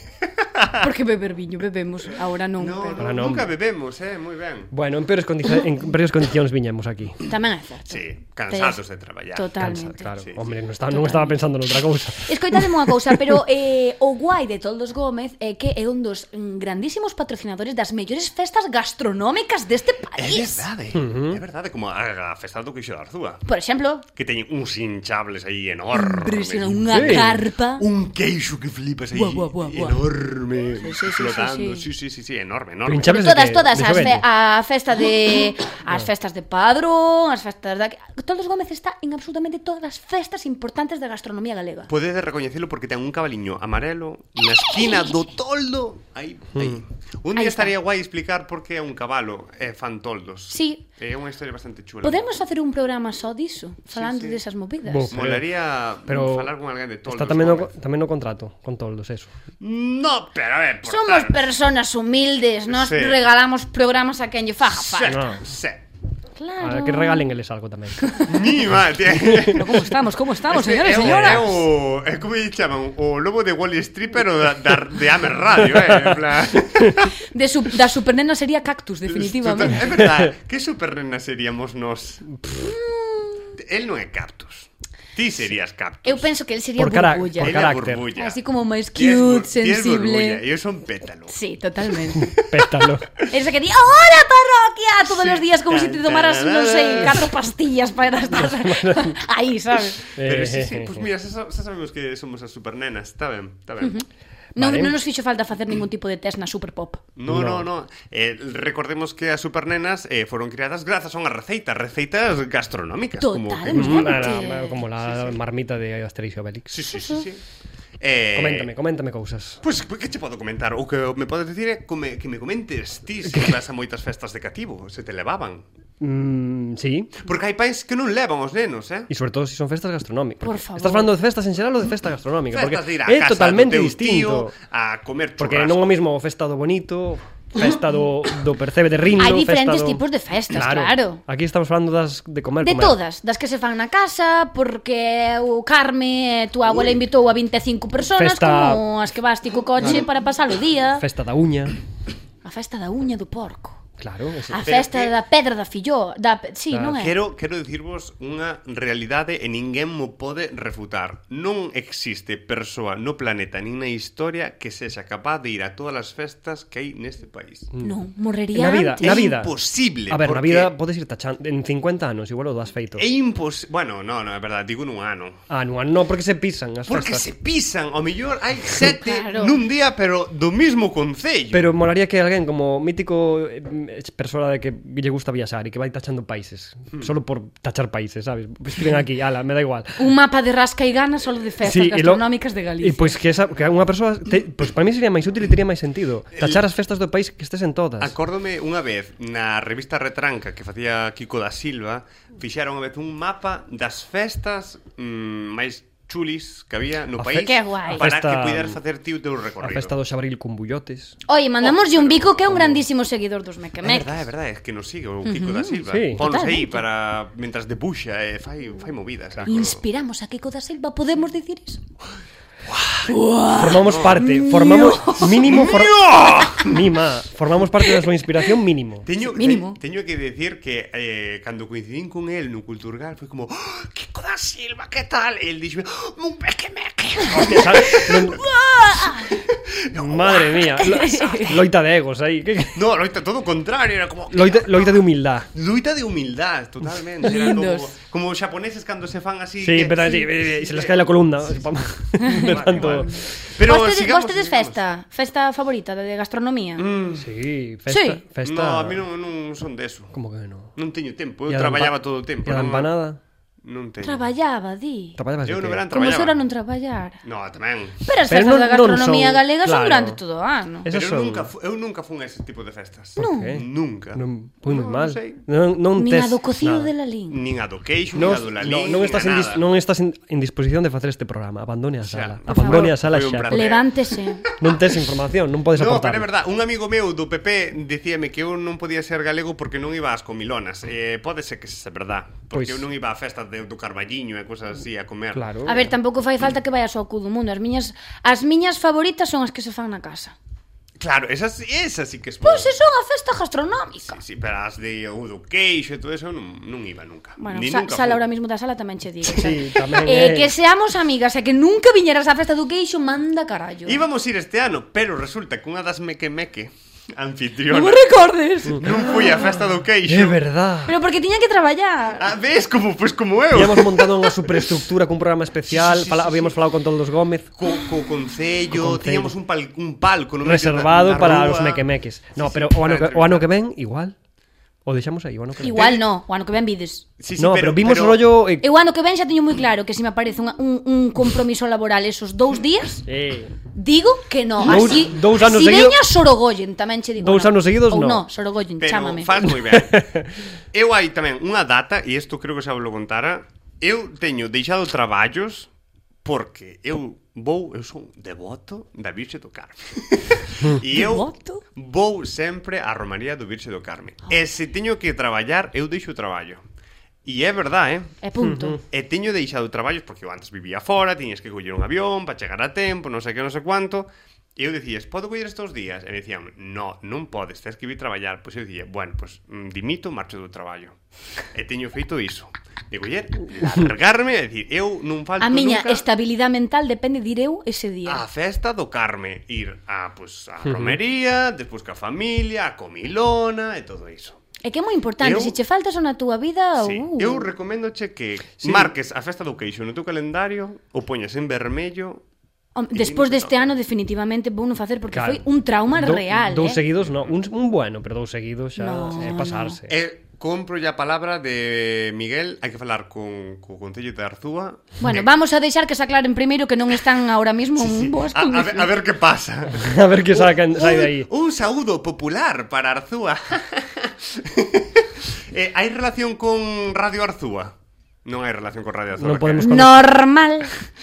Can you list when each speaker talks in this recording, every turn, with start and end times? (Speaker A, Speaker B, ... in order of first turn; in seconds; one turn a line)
Speaker A: 0.6-0.9
Speaker B: 0.8-3.2
Speaker A: 2.6-4.7
Speaker C: 3.0-3.5
Speaker C: 4.7-7.2
Speaker B: 7.2-8.8
Speaker A: 7.9-9.6
Speaker B: 9.3-10.2
Speaker C: 9.6-13.3
Speaker A: 10.2-10.5
Speaker B: 10.9-11.4
Speaker B: 12.3-20.7
Speaker A: 20.2-23.4
Speaker C: 20.9-21.4
Speaker B: 23.5-24.1
Speaker A: 24.1-33.4
Speaker B: 25.9-27.9
Speaker C: 26.9-27.4
Speaker B: 29.1-30.0
Speaker B: 30.7-31.9
Speaker C: 32.9-34.2
Speaker B: 33.0-41.9
Speaker A: 41.9-52.3
Speaker B: 44.7-45.1
Speaker C: 46.5-46.8
Speaker B: 47.4-47.7
Speaker B: 50.5-50.8
Speaker B: 52.0-55.2
Speaker A: 53.9-54.4
Speaker C: 54.9-55.5
Speaker A: 55.1-57.7
Speaker C: 56.1-56.5
Speaker C: 57.1-59.3
Speaker A: 59.6-61.4
Speaker B: 60.8-65.2
Speaker A: 62.7-63.2
Speaker A: 64.7-65.8
Speaker C: 65.1-65.4
Speaker B: 66.4-67.2
Speaker C: 66.6-68.3
Speaker B: 68.0-68.3
Speaker A: 68.2-69.8
Speaker C: 69.1-69.7
Speaker B: 69.5-71.6
Speaker A: 70.5-77.1
Speaker C: 71.0-71.4
Speaker C: 75.8-76.1
Speaker B: 77.3-80.0
Speaker A: 79.1-82.3
Speaker C: 82.3-82.7
Speaker B: 82.6-83.5
Speaker A: 83.6-86.3
Speaker B: 86.0-90.4
Speaker C: 86.8-88.1
Speaker A: 87.4-88.4
Speaker A: 89.0-93.2
Speaker B: 91.3-92.3
Speaker C: 92.2-93.2
Speaker B: 93.3-100.0
Speaker A: 95.1-97.3
Speaker C: 97.0-97.2
Speaker C: 98.3-99.2
Speaker C: 100.2-101.1
Speaker A: 100.2-104.0
Speaker B: 103.8-107.1
Speaker C: 104.6-105.0
Speaker A: 107.2-115.4
Speaker C: 107.3-107.7
Speaker B: 113.2-114.8
Speaker C: 113.7-116.8
Speaker A: 116.7-117.4
Speaker A: 118.0-118.7
Speaker C: 118.3-119.6
Speaker A: 119.6-125.6
Speaker C: 123.2-123.6
Speaker C: 126.0-127.2
Speaker A: 127.2-129.1
Speaker C: 129.1-134.5
Speaker B: 130.4-131.1
Speaker A: 132.5-135.9
Speaker C: 135.4-143.0
Speaker B: 139.2-141.2
Speaker B: 142.6-151.1
Speaker C: 148.1-148.8
Speaker C: 149.8-150.1
Speaker C: 151.0-151.8
Speaker B: 152.4-153.8
Speaker C: 154.0-154.6
Speaker B: 154.5-157.2
Speaker A: 154.6-155.1
Speaker C: 156.7-157.0
Speaker A: 157.0-167.7
Speaker B: 167.8-169.3
Speaker C: 168.5-173.1
Speaker A: 169.0-170.7
Speaker A: 173.0-175.4
Speaker C: 175.5-177.3
Speaker A: 176.9-181.7
Speaker B: 178.8-179.6
Speaker C: 181.5-190.1
Speaker B: 190.0-193.2
Speaker C: 191.6-198.2
Speaker A: 196.4-196.6
Speaker A: 198.0-209.9
Speaker C: 207.2-208.8
Speaker B: 207.4-208.1
Speaker C: 209.6-211.2
Speaker B: 211.3-214.2
Speaker A: 211.6-212.6
Speaker C: 212.5-212.8
Speaker A: 213.8-219.8
Speaker B: 215.2-216.8
Speaker C: 215.9-216.2
Speaker B: 219.5-221.8
Speaker A: 222.7-223.2
Speaker B: 223.1-225.5
Speaker C: 223.6-229.1
Speaker A: 223.8-224.2
Speaker A: 225.1-226.8
Speaker A: 229.1-241.6
Speaker B: 229.2-229.8
Speaker C: 237.3-238.4
Speaker B: 238.9-239.3
Speaker C: 240.0-242.8
Speaker B: 240.8-241.6
Speaker A: 242.8-245.0
Speaker C: 244.3-245.5
Speaker A: 245.5-251.7
Speaker B: 247.2-247.9
Speaker C: 249.6-253.2
Speaker B: 252.2-256.9
Speaker A: 252.2-254.8
Speaker A: 256.8-257.3
Speaker C: 257.2-259.0
Speaker B: 257.9-258.2
Speaker A: 258.4-260.2
Speaker C: 260.1-260.8
Speaker A: 260.8-262.9
Speaker C: 261.5-263.2
Speaker A: 263.6-264.3
Speaker B: 264.0-265.2
Speaker C: 265.2-265.9
Speaker A: 265.4-266.4
Speaker B: 265.9-267.2
Speaker A: 267.2-268.0
Speaker B: 268.1-270.9
Speaker C: 268.3-270.2
Speaker C: 270.9-271.5
Speaker A: 270.9-275.4
Speaker C: 273.2-276.9
Speaker B: 273.2-273.6
Speaker B: 275.9-277.4
Speaker A: 277.3-279.6
Speaker C: 278.1-283.6
Speaker A: 282.0-285.1
Speaker B: 282.5-284.5
Speaker C: 284.6-286.3
Speaker A: 285.7-295.5
Speaker C: 292.5-292.9
Speaker C: 295.3-295.9
Speaker B: 295.6-300.4
Speaker A: 301.0-302.8
Speaker B: 302.4-304.2
Speaker A: 304.0-308.2
Speaker B: 307.4-314.0
Speaker A: 309.3-309.5
Speaker C: 309.3-310.5
Speaker A: 313.9-318.1
Speaker B: 317.7-319.4
Speaker C: 318.7-319.1
Speaker A: 318.8-320.4
Speaker C: 320.1-321.0
Speaker B: 320.9-322.3
Speaker A: 322.2-324.7
Speaker C: 323.5-327.5
Speaker A: 325.7-326.6
Speaker A: 327.6-331.9
Speaker C: 328.7-329.3
Speaker C: 330.4-334.1
Speaker A: 332.4-333.5
Speaker C: 334.9-335.8
Speaker B: 335.6-337.1
Speaker A: 335.6-336.0
Speaker A: 337.2-338.2
Speaker C: 337.4-338.7
Speaker B: 338.6-343.1
Speaker C: 343.1-343.5
Speaker B: 343.8-349.4
Speaker C: 344.6-346.0
Speaker C: 347.2-348.3
Speaker A: 348.8-350.0
Speaker C: 349.5-350.4
Speaker A: 350.7-355.7
Speaker A: 356.2-366.6
Speaker B: 360.9-361.6
Speaker A: 367.2-368.1
Speaker B: 368.2-368.8
Speaker C: 368.4-368.8
Speaker A: 368.9-381.0
Speaker A: 381.5-386.1
Speaker B: 385.4-388.2
Speaker A: 388.1-394.4
Speaker C: 390.6-391.0
Speaker B: 394.6-397.5
Speaker A: 395.2-395.6
Speaker A: 396.8-402.2
Speaker C: 398.6-398.9
Speaker B: 402.8-406.8
Speaker A: 402.9-403.7
Speaker C: 405.1-409.9
Speaker A: 407.0-407.3
Speaker B: 408.8-409.8
Speaker A: 409.9-415.3
Speaker B: 415.0-418.9
Speaker A: 417.8-427.7
Speaker C: 419.7-421.3
Speaker A: 428.2-429.9
Speaker C: 429.2-430.0
Speaker B: 429.6-430.7